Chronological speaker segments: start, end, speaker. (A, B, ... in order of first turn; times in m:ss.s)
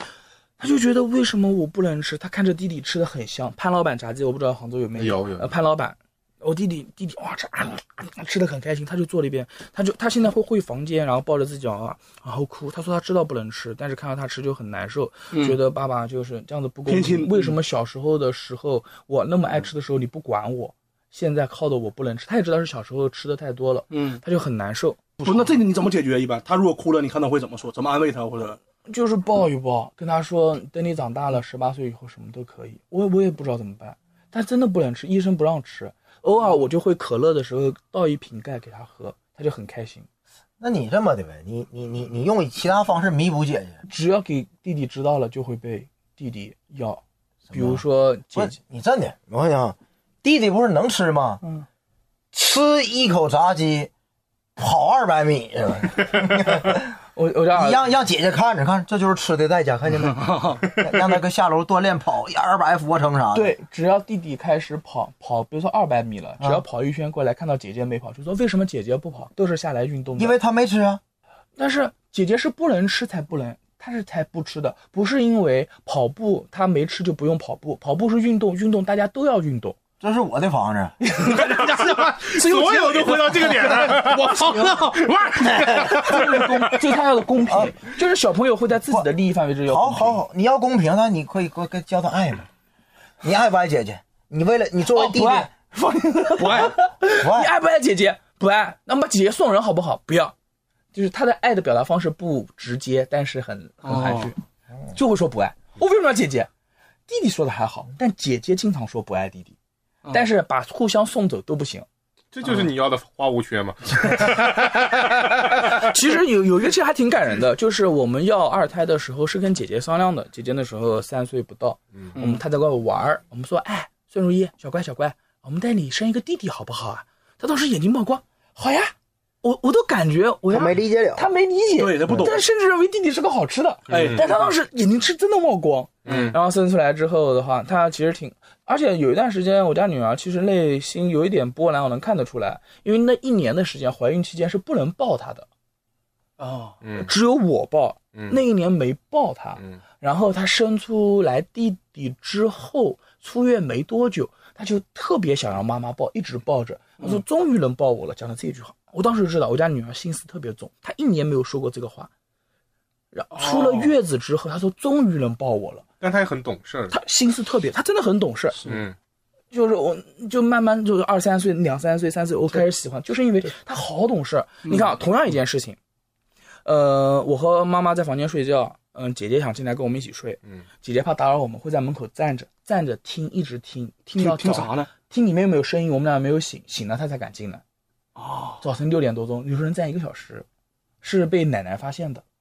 0:00.6-0:25.6 A
0:05.0-0:05.5 B
0:15.3-0:15.6 C
0:16.9-0:17.6 C
0:23.9-0:24.2 C
0:25.2-0:28.6 C
0:28.9-0:40.1 A
0:40.6-0:43.8 D
0:43.8-0:48.6 A
0:47.5-0:47.8 D
0:48.4-0:51.4 D
0:52.3-0:53.9 D
0:54.6-0:56.9 D
0:57.2-0:57.9 A
0:57.5-1:03.5 D
1:00.0-1:00.6 C
1:03.3-1:10.4 A
1:10.2-1:11.0 D
1:11.6-1:19.8 A
1:20.0-1:21.0 D
1:21.0-1:21.9 A
1:21.2-1:26.4 C
1:22.2-1:24.4 B
1:25.8-1:30.2 A
1:27.5-1:27.8 D
1:29.7-1:32.5 D
1:33.2-1:35.5 D
1:34.9-1:40.3 A
1:36.4-1:36.7 C
1:37.2-1:37.5 D
1:40.9-1:44.4 A
1:43.8-1:44.3 C
1:44.9-1:46.5 A
1:47.1-1:49.6 A
1:50.1-1:51.9 A
1:52.3-1:54.7 B
1:55.7-2:25.5 A
2:02.2-2:02.4 C
2:10.5-2:11.3 D
2:11.8-2:12.4 C
2:13.9-2:14.2 B
2:13.9-2:14.5 C
2:16.1-2:16.3 C
2:16.1-2:16.4 B
2:26.4-2:26.8 C
2:26.8-2:27.1 B
2:27.0-2:42.1 A
2:43.1-2:45.8 A
2:43.4-2:43.9 C
2:46.0-2:47.0 B
2:46.9-2:48.6 A
2:48.6-2:49.0 B
2:49.5-2:55.8 A
2:54.6-2:54.9 C
2:56.6-3:07.6 A
3:04.2-3:04.9 C
3:08.2-3:08.6 C
3:08.6-3:10.5 A
3:11.0-3:12.2 A